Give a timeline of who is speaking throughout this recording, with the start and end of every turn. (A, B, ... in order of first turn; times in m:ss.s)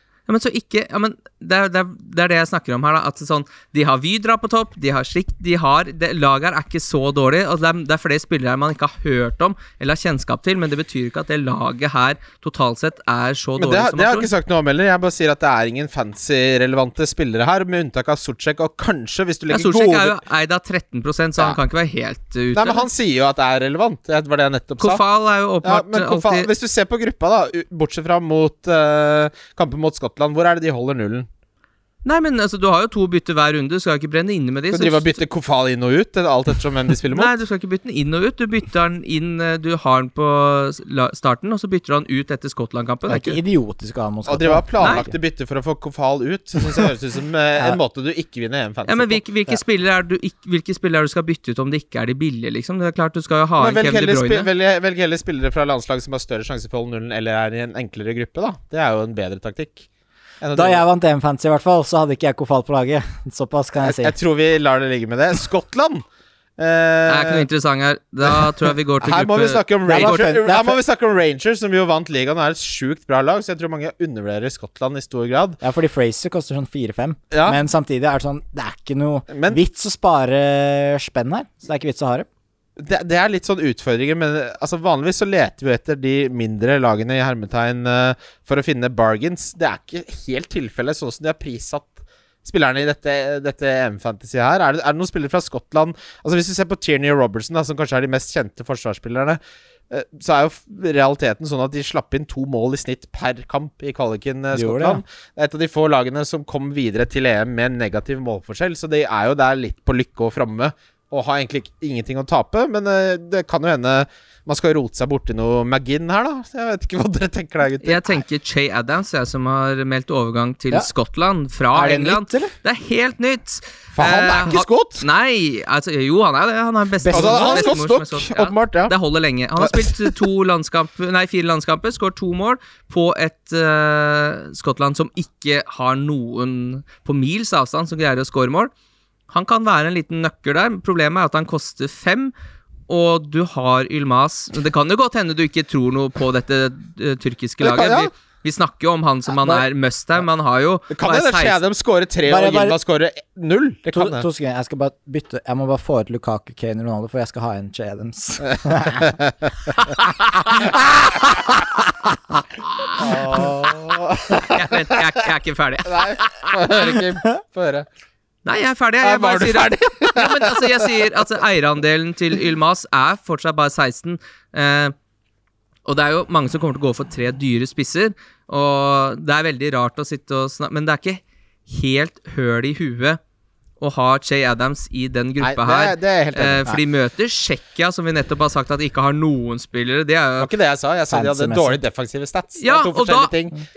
0:00.3-0:14.3 A
0:13.6-0:20.2 B
0:19.5-0:22.9 A
0:22.5-0:25.0 B
0:24.8-0:26.5 A
0:25.6-0:31.3 B
0:32.0-0:35.2 A
0:34.7-0:37.3 B
0:37.1-0:43.4 A
0:43.1-0:45.1 C
0:44.3-0:49.2 B
0:44.8-0:45.0 A
0:48.9-0:54.5 A
0:53.6-0:59.9 B
1:00.4-1:00.8 B
1:00.6-1:04.2 C
1:03.8-1:06.0 B
1:06.6-1:07.5 B
1:07.1-1:10.3 A
1:08.2-1:15.6 B
1:09.9-1:10.8 C
1:15.6-1:22.3 C
1:17.3-1:17.6 B
1:19.3-1:19.6 B
1:22.8-1:58.2 B
1:44.5-1:45.0 C
1:57.8-2:18.7 A
2:01.7-2:02.5 C
2:04.0-2:05.0 B
2:07.0-2:07.7 C
2:07.1-2:08.9 B
2:09.6-2:10.1 B
2:19.3-2:22.3 A
2:22.9-2:31.6 A
2:27.6-2:28.1 B
2:30.9-2:34.3 B
2:32.3-2:32.8 C
2:33.9-2:39.1 C
2:39.0-2:39.3 B
2:43.0-2:45.0 B
2:44.5-2:46.5 A
2:45.9-2:47.9 B
2:48.4-2:55.0 A
2:49.0-2:51.2 B
2:55.9-3:03.2 A
3:03.8-3:10.5 A
3:05.4-3:06.8 B
3:10.4-3:13.6 B
3:11.1-3:11.8 C
3:12.6-3:13.3 A